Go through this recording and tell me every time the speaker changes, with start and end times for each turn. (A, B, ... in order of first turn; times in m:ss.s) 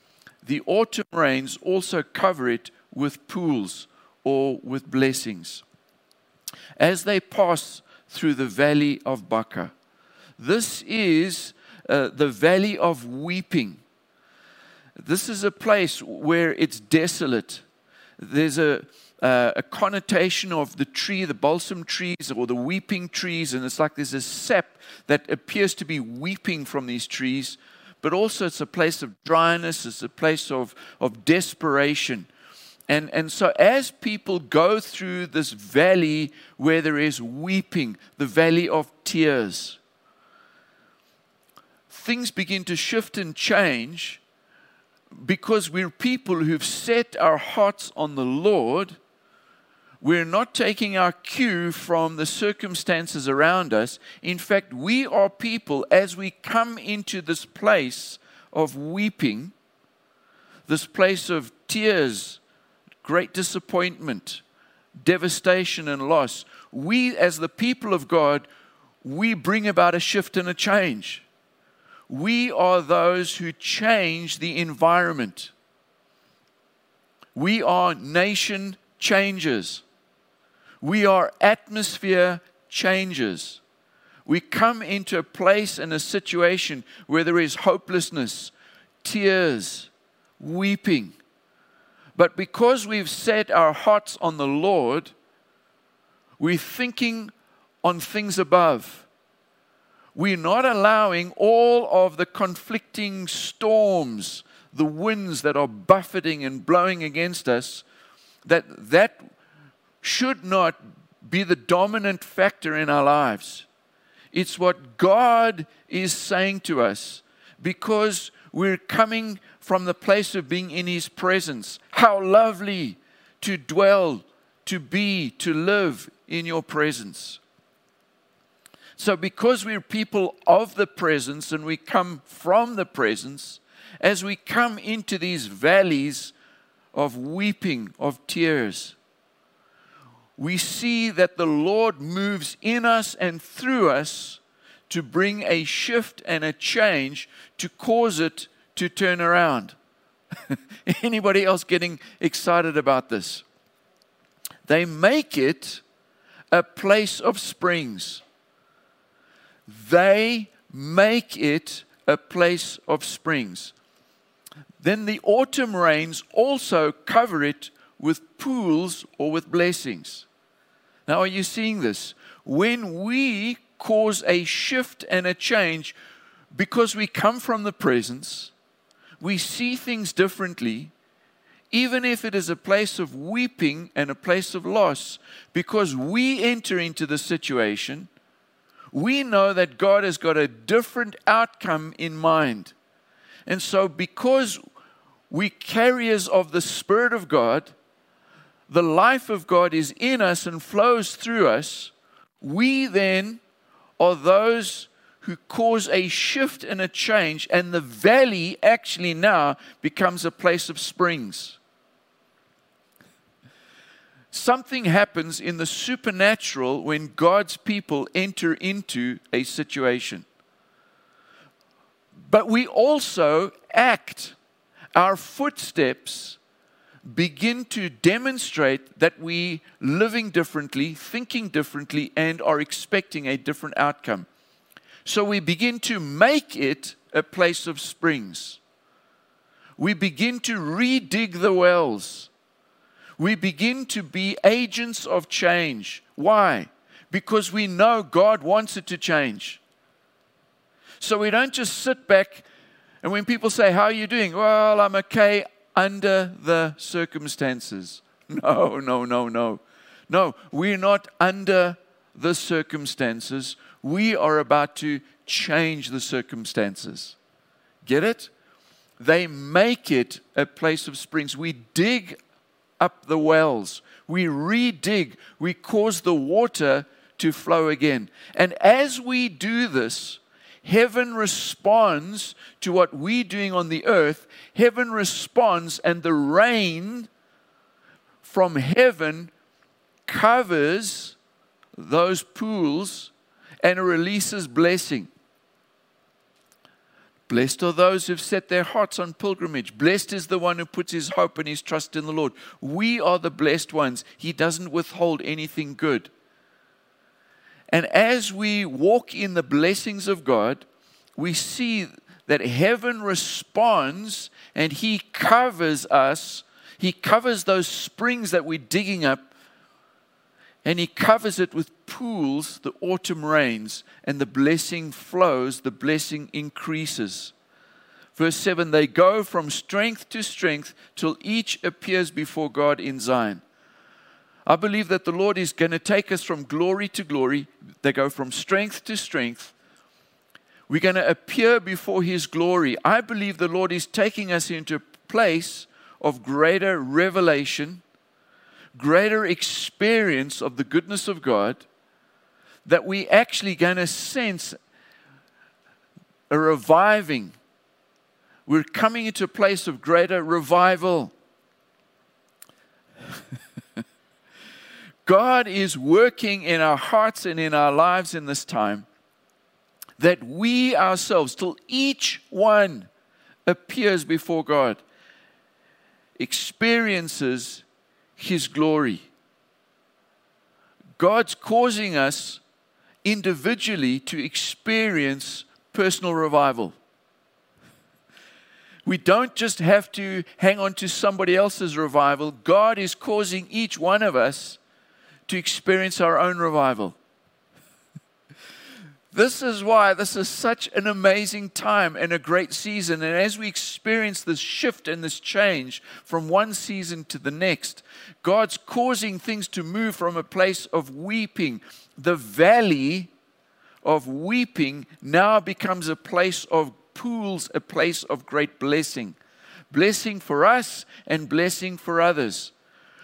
0:00.4-0:05.6 A
0:06.8-0:09.7 A
0:10.4-0:13.8 A
0:15.0-0:17.6 A
0:18.2-0:32.3 A
0:32.9-0:39.8 A
0:41.9-0:44.2 A
0:45.2-0:49.0 A
0:50.0-0:59.5 A
1:00.7-1:02.4 A
1:03.0-1:04.4 A
1:05.0-1:08.5 A
1:09.0-1:11.2 A
1:12.1-1:15.5 A
1:17.4-1:19.8 A
1:20.8-1:23.6 A
1:24.3-1:31.2 A
1:32.2-1:35.1 A
1:36.4-1:37.3 A
1:37.8-1:39.1 A
1:40.2-1:47.8 A
1:48.4-1:49.3 A
1:50.0-1:53.7 A
1:54.3-2:07.4 A
2:09.0-2:16.3 A
2:16.9-2:19.0 A
2:20.4-2:29.8 A
2:30.5-2:33.4 A
2:34.7-2:35.8 A
2:36.5-2:38.2 A
2:39.7-2:43.7 A
2:44.8-2:50.3 A
2:51.1-2:56.0 A
2:56.5-2:58.5 A
2:59.2-3:00.9 A
3:01.7-3:08.1 A
3:08.9-3:12.7 A
3:13.5-3:14.6 A
3:15.3-3:17.7 A
3:18.7-3:23.4 A
3:24.0-3:31.6 A
3:34.3-3:40.2 A
3:42.3-3:44.4 A
3:45.0-3:46.4 A
3:47.1-3:54.3 A
3:55.0-3:58.6 A
3:59.8-4:02.3 A
4:03.2-4:09.6 A
4:11.0-4:12.5 A
4:13.0-4:27.2 A
4:27.8-4:28.3 A
4:29.0-4:32.2 A
4:32.8-4:47.1 A
4:48.2-4:49.3 A
4:50.1-4:51.2 A
4:51.8-4:55.1 A
4:57.3-5:06.1 A
5:07.7-5:10.7 A
5:11.2-5:19.3 A
5:20.6-5:27.3 A
5:28.2-5:33.4 A
5:34.5-5:39.5 A
5:40.7-5:47.8 A
5:48.8-5:51.6 A
5:52.7-5:54.6 A
5:56.3-5:57.4 A
5:58.5-6:01.1 A
6:05.0-6:08.9 A
6:10.0-6:12.9 A
6:13.5-6:14.8 A
6:16.2-6:17.6 A
6:18.2-6:19.1 A
6:21.0-6:22.4 A
6:23.0-6:26.8 A
6:28.8-6:34.6 A
6:35.3-6:37.0 A
6:39.1-6:53.1 A
6:53.8-6:59.2 A
6:59.7-7:02.5 A